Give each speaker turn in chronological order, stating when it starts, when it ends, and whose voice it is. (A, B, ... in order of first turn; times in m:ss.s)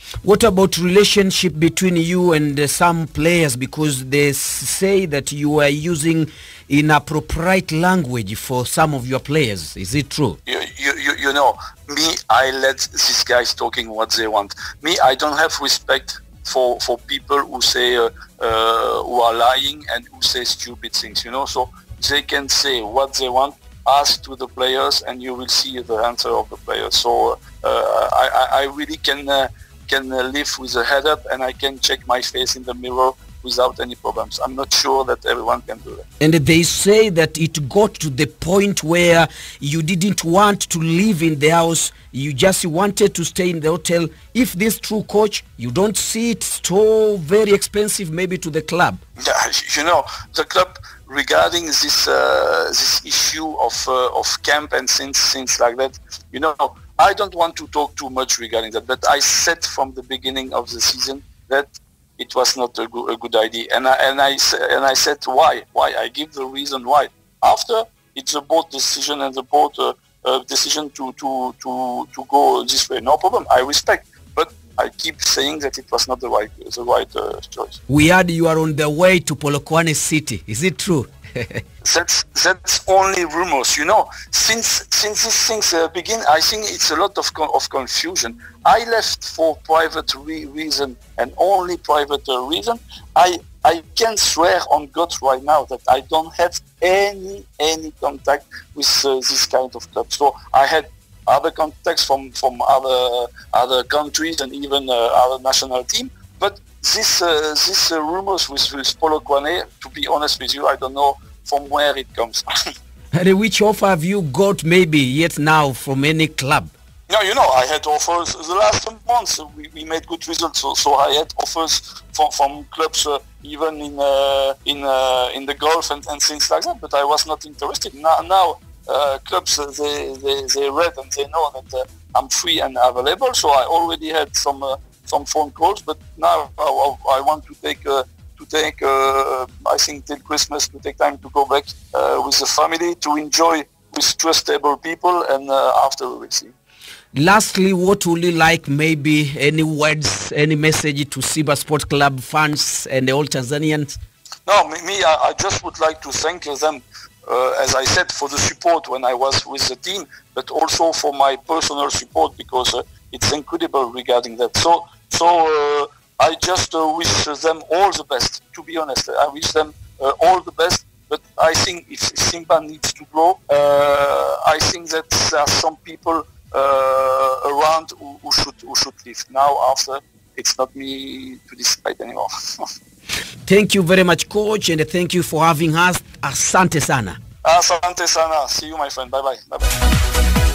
0:00.2-0:10.4 A
0:10.4-0:36.0 B
0:36.2-0:49.0 A
0:49.2-1:17.8 B
1:17.9-1:21.6 A
1:21.8-1:52.4 B
1:53.1-1:56.7 A
1:57.1-2:26.5 B
2:27.1-2:34.0 A
2:34.4-3:02.7 B
3:03.4-3:07.2 A
3:07.4-3:09.8 B